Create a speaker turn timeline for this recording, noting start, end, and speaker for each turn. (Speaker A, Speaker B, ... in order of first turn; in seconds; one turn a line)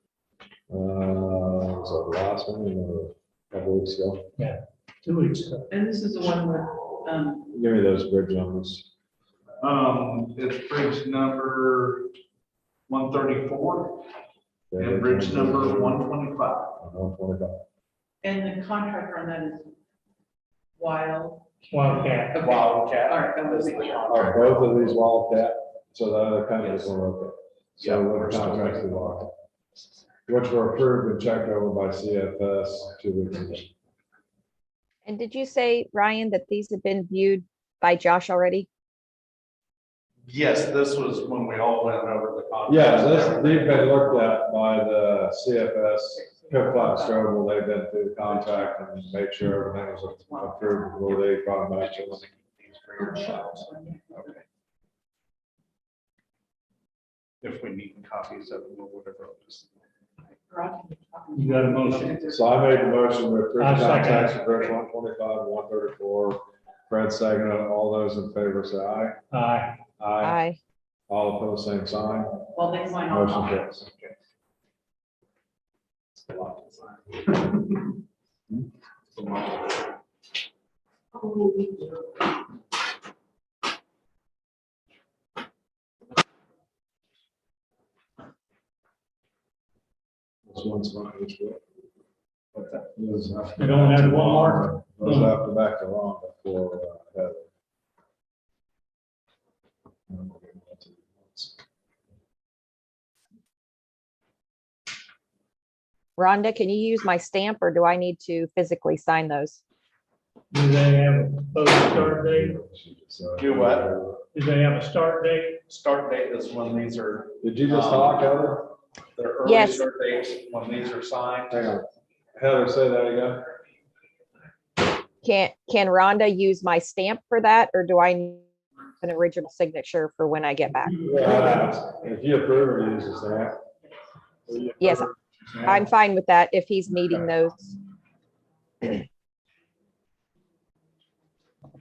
Speaker A: 0.7-4.2
Speaker B: 4.4-5.7
Speaker C: 5.7-7.5
Speaker A: 7.5-8.9
Speaker D: 9.6-12.1
Speaker D: 12.9-14.1
Speaker A: 14.7-16.0
Speaker D: 14.8-16.7
Speaker A: 16.8-17.6
Speaker C: 18.2-19.7
Speaker C: 20.8-24.3
Speaker B: 21.7-22.4
Speaker D: 22.3-25.0
Speaker A: 24.1-29.3
Speaker D: 26.6-26.9
Speaker D: 27.8-29.1
Speaker A: 30.3-33.7
Speaker E: 35.0-38.7
Speaker D: 40.3-44.0
Speaker A: 42.7-52.2
Speaker C: 46.1-47.3
Speaker C: 48.4-48.8
Speaker C: 49.6-51.0
Speaker D: 51.0-54.4
Speaker C: 53.0-54.4
Speaker D: 57.4-59.7
Speaker C: 60.5-63.0
Speaker B: 61.3-62.2
Speaker A: 62.3-69.2
Speaker B: 63.6-64.4
Speaker B: 69.3-69.8
Speaker A: 70.0-70.4
Speaker E: 70.2-70.6
Speaker A: 71.1-72.4
Speaker C: 72.5-73.7
Speaker A: 73.1-73.8
Speaker D: 76.3-77.7
Speaker D: 79.1-79.8
Speaker A: 90.5-91.6
Speaker D: 92.5-92.8
Speaker A: 92.9-97.5
Speaker B: 93.6-95.3
Speaker A: 100.1-101.6
Speaker E: 106.2-109.6
Speaker B: 110.5-112.5
Speaker A: 111.7-114.2
Speaker D: 113.4-113.9
Speaker B: 114.3-115.6
Speaker D: 115.7-118.3
Speaker A: 117.4-118.7
Speaker D: 119.1-121.7
Speaker E: 119.4-119.8
Speaker A: 121.5-123.4
Speaker E: 125.2-128.5
Speaker E: 129.0-131.3
Speaker A: 131.0-133.6
Speaker A: 134.5-135.1
Speaker E: 134.8-135.1
Speaker E: 135.6-137.7